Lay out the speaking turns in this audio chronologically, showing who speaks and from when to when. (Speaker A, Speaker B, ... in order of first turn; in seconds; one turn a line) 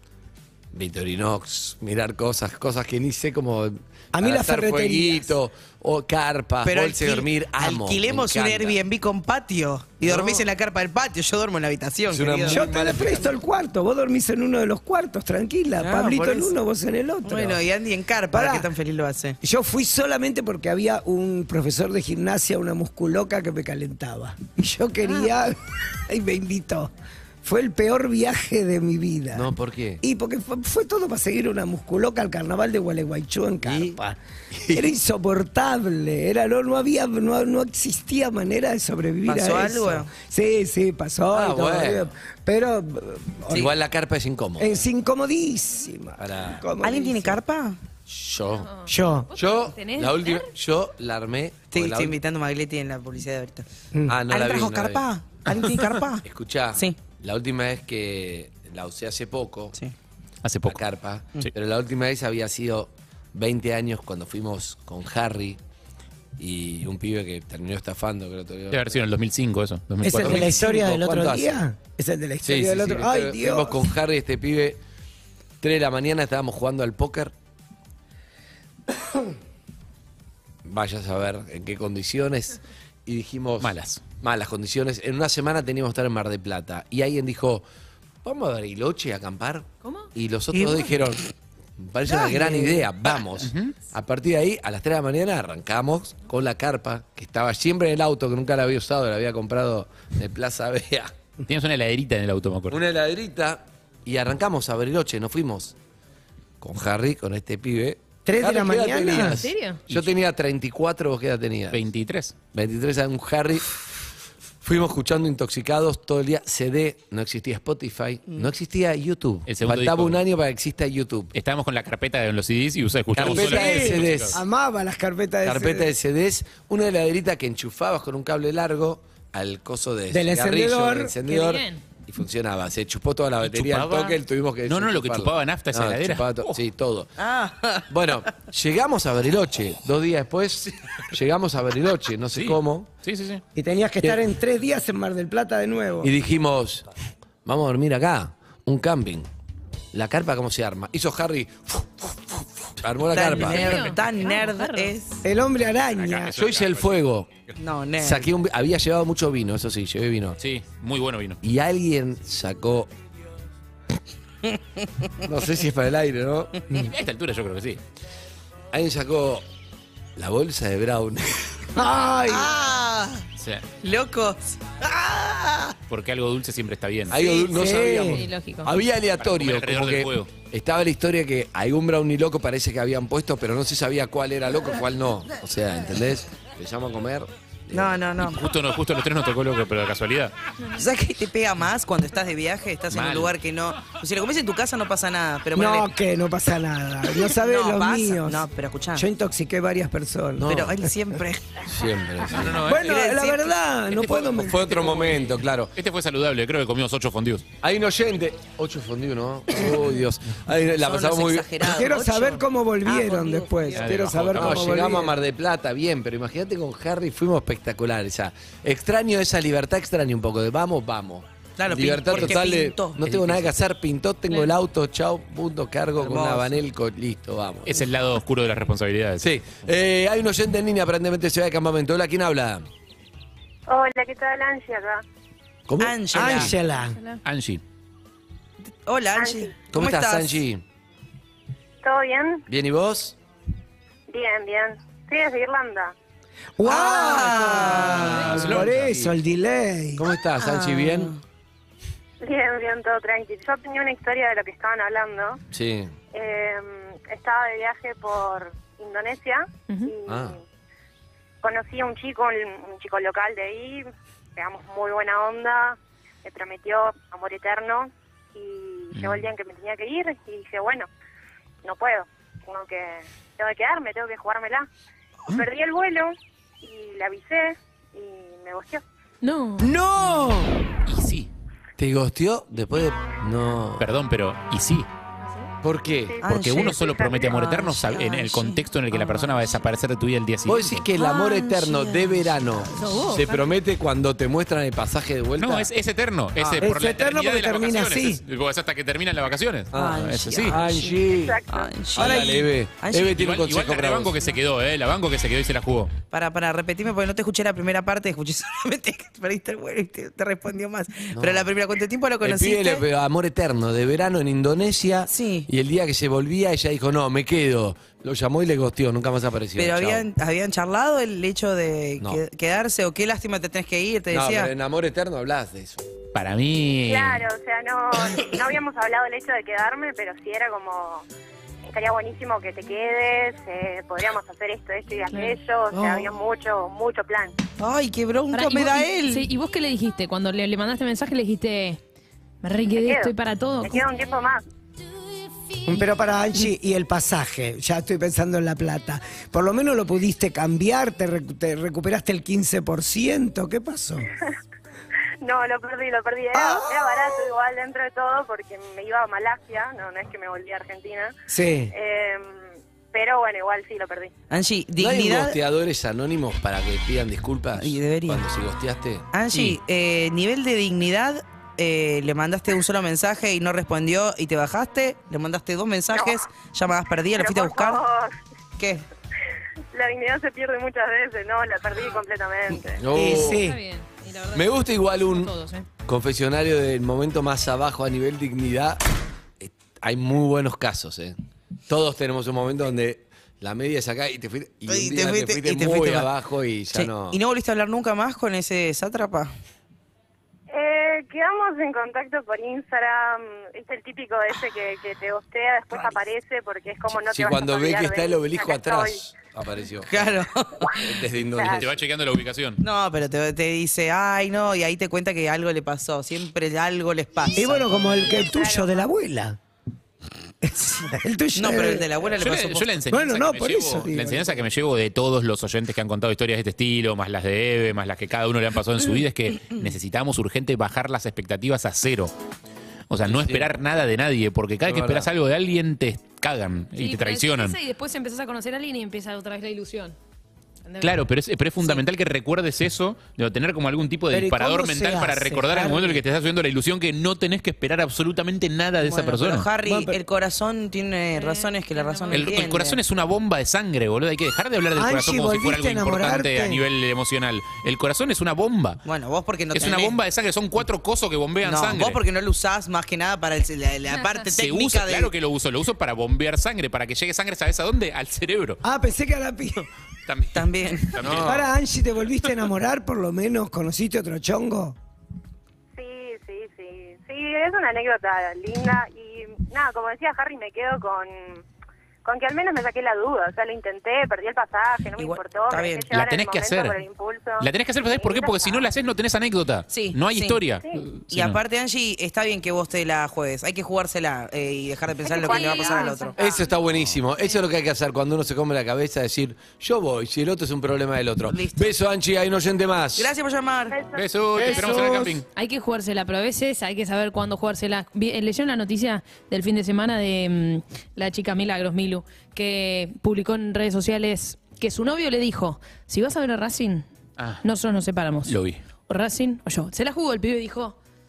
Speaker A: 0.7-8.8
Speaker B: 4.1-5.3
Speaker C: 6.6-12.6
Speaker A: 10.0-10.5
Speaker A: 12.1-13.4
Speaker B: 12.5-17.6
Speaker C: 15.8-16.5
Speaker C: 17.2-19.4
Speaker B: 18.3-18.7
Speaker B: 19.4-25.6
Speaker B: 26.1-26.9
Speaker B: 27.4-29.5
Speaker A: 29.3-30.0
Speaker B: 30.0-34.2
Speaker A: 33.6-34.0
Speaker A: 34.5-34.9
Speaker B: 34.7-43.7
Speaker C: 39.2-40.1
Speaker A: 41.3-42.1
Speaker A: 43.5-44.8
Speaker B: 44.6-47.4
Speaker A: 46.2-46.6
Speaker C: 46.8-47.8
Speaker A: 48.0-48.7
Speaker D: 48.6-50.5
Speaker B: 48.9-49.3
Speaker A: 49.3-52.2
Speaker C: 51.7-53.6
Speaker B: 53.9-54.2
Speaker A: 54.1-55.0
Speaker C: 54.3-56.2
Speaker A: 56.2-59.8
Speaker C: 56.7-57.0
Speaker E: 60.4-60.8
Speaker A: 60.6-65.6
Speaker A: 66.4-69.0
Speaker E: 68.7-70.6
Speaker B: 70.0-73.8
Speaker A: 70.1-71.6
Speaker A: 72.4-74.8
Speaker A: 75.6-77.3
Speaker A: 80.6-87.7
Speaker E: 83.6-84.0
Speaker A: 88.2-91.2
Speaker A: 91.8-101.1
Speaker B: 92.1-92.8
Speaker E: 93.4-93.7
Speaker E: 101.5-102.8
Speaker A: 102.7-105.7
Speaker A: 106.6-111.8
Speaker B: 108.2-109.4
Speaker D: 109.4-109.8
Speaker E: 111.7-112.3
Speaker A: 112.5-113.8
Speaker A: 114.6-121.3
Speaker E: 119.5-120.2
Speaker E: 121.3-124.4
Speaker A: 123.1-124.4
Speaker B: 123.2-125.9
Speaker A: 125.4-137.1
Speaker B: 130.1-131.2
Speaker D: 131.3-131.8
Speaker E: 133.4-136.6
Speaker C: 137.2-137.9
Speaker A: 137.9-142.9
Speaker E: 142.3-143.4
Speaker B: 143.6-146.1
Speaker A: 146.0-146.8
Speaker A: 147.4-149.3
Speaker A: 149.9-153.8
Speaker C: 153.1-155.2
Speaker D: 153.3-154.9
Speaker B: 155.2-156.3
Speaker E: 155.8-156.9
Speaker A: 156.3-157.4
Speaker C: 157.6-158.3
Speaker A: 158.0-160.4
Speaker E: 160.4-161.4
Speaker A: 161.4-162.9
Speaker C: 164.4-164.9
Speaker A: 165.2-166.6
Speaker E: 166.7-167.8
Speaker A: 168.7-169.4
Speaker A: 170.2-171.7
Speaker B: 171.7-172.6
Speaker C: 172.3-173.2
Speaker E: 173.4-173.6
Speaker C: 173.8-175.7
Speaker E: 175.9-177.2
Speaker A: 177.1-188.0
Speaker B: 177.4-178.2
Speaker D: 177.9-178.7
Speaker E: 179.2-180.3
Speaker C: 187.7-188.4
Speaker E: 188.2-190.3
Speaker C: 190.7-195.9
Speaker E: 192.9-193.3
Speaker B: 195.5-200.9
Speaker C: 197.3-199.1
Speaker A: 200.4-200.7
Speaker C: 200.5-201.6
Speaker A: 201.6-202.7
Speaker E: 202.3-202.9
Speaker B: 202.6-205.2
Speaker C: 202.8-203.5
Speaker E: 203.9-204.3
Speaker A: 204.1-205.7
Speaker E: 205.7-207.4
Speaker A: 207.6-211.6
Speaker C: 210.8-214.0
Speaker B: 211.6-215.1
Speaker E: 213.7-214.9
Speaker A: 214.3-227.9
Speaker C: 221.6-223.0
Speaker E: 223.1-223.5
Speaker C: 226.0-226.6
Speaker E: 227.7-229.3
Speaker A: 229.2-232.7
Speaker F: 233.7-235.0
Speaker A: 235.7-236.5
Speaker C: 235.8-236.5
Speaker B: 236.1-237.0
Speaker D: 236.9-237.2
Speaker E: 237.2-237.6
Speaker C: 238.8-240.4
Speaker F: 239.2-239.5
Speaker A: 239.7-240.6
Speaker F: 241.8-242.4
Speaker A: 242.5-243.2
Speaker F: 244.1-245.9
Speaker B: 246.6-250.1
Speaker C: 246.6-248.2
Speaker A: 247.9-249.1
Speaker E: 248.2-248.9
Speaker A: 249.9-251.1
Speaker C: 250.4-251.2
Speaker F: 252.2-255.4
Speaker A: 255.5-255.9
Speaker F: 256.1-260.4
Speaker D: 259.7-259.9
Speaker A: 260.1-260.4
Speaker F: 261.4-270.9
Speaker E: 268.9-269.3
Speaker F: 271.6-274.7
Speaker F: 275.3-278.8
Speaker D: 279.2-279.7
Speaker B: 279.6-280.5
Speaker E: 280.9-281.3
Speaker A: 281.8-283.9
Speaker E: 283.8-284.9
Speaker D: 285.2-285.5
Speaker A: 285.6-286.2
Speaker F: 286.1-287.3
Speaker C: 286.2-289.3
Speaker E: 286.2-290.8
Speaker A: 290.4-295.7
Speaker D: 291.0-291.9
Speaker D: 292.7-293.5
Speaker E: 295.4-300.6
Speaker A: 296.4-296.7
Speaker B: 296.6-298.2
Speaker A: 299.7-301.4
Speaker C: 299.7-300.9
Speaker F: 300.9-301.8
Speaker C: 301.5-303.2
Speaker A: 301.9-304.2
Speaker E: 303.1-305.9
Speaker C: 306.1-312.8
Speaker A: 311.1-311.5
Speaker A: 312.2-320.1
Speaker C: 315.1-315.5
Speaker C: 319.6-324.5
Speaker A: 324.1-325.8
Speaker E: 326.1-327.2
Speaker F: 326.9-331.0
Speaker F: 331.6-337.4
Speaker D: 335.1-335.4
Speaker C: 335.7-336.1
Speaker C: 337.6-339.3
Speaker D: 338.3-341.8
Speaker D: 342.4-343.9
Speaker F: 342.7-344.4
Speaker B: 345.6-354.1
Speaker F: 355.2-361.1
Speaker B: 356.3-357.2
Speaker B: 361.3-361.7
Speaker F: 361.7-364.1
Speaker C: 364.3-365.3
Speaker A: 364.8-369.1
Speaker C: 367.6-368.2
Speaker C: 369.1-377.8
Speaker F: 375.9-376.2
Speaker F: 377.1-378.1
Speaker C: 378.6-378.8
Speaker F: 379.7-382.8
Speaker A: 382.5-383.4
Speaker B: 382.9-383.6
Speaker D: 383.1-385.7
Speaker A: 384.3-385.3
Speaker A: 385.9-388.8
Speaker A: 389.4-391.1
Speaker A: 391.7-397.2
Speaker C: 394.7-396.1
Speaker C: 396.7-399.3
Speaker F: 400.5-409.0
Speaker A: 406.9-410.1
Speaker C: 409.9-410.7
Speaker A: 410.7-411.8
Speaker F: 411.3-411.6
Speaker E: 411.4-412.6
Speaker C: 412.6-418.3
Speaker B: 417.3-419.4
Speaker F: 417.9-418.9
Speaker B: 420.4-421.9
Speaker C: 421.3-422.7
Speaker E: 422.2-432.1
Speaker B: 422.9-424.4
Speaker E: 432.9-437.6
Speaker A: 433.0-433.5
Speaker A: 434.6-435.1
Speaker D: 436.8-439.9
Speaker D: 440.6-440.9
Speaker E: 440.8-449.5
Speaker B: 444.1-446.0
Speaker C: 448.8-452.8
Speaker B: 449.6-450.0
Speaker D: 451.1-452.4
Speaker E: 452.1-458.8
Speaker B: 454.8-456.6
Speaker C: 458.8-460.0
Speaker E: 459.5-462.0
Speaker C: 461.4-465.1
Speaker D: 463.9-464.2
Speaker E: 464.3-468.6
Speaker B: 468.6-469.6
Speaker E: 470.1-471.4
Speaker C: 470.3-470.9
Speaker A: 471.0-471.5
Speaker B: 471.1-474.8
Speaker F: 475.8-481.4
Speaker F: 482.0-488.7
Speaker C: 484.9-485.9
Speaker E: 485.9-486.8
Speaker E: 487.4-491.4
Speaker C: 489.7-490.4
Speaker C: 491.1-496.2
Speaker F: 495.0-496.4
Speaker D: 495.1-496.5
Speaker A: 496.2-503.1
Speaker C: 501.3-501.7
Speaker C: 502.9-503.8
Speaker F: 503.7-504.0
Speaker E: 503.9-505.2
Speaker B: 504.4-505.2
Speaker D: 505.3-516.9
Speaker E: 517.2-517.4
Speaker D: 517.4-518.3
Speaker E: 518.2-518.6
Speaker D: 518.9-520.8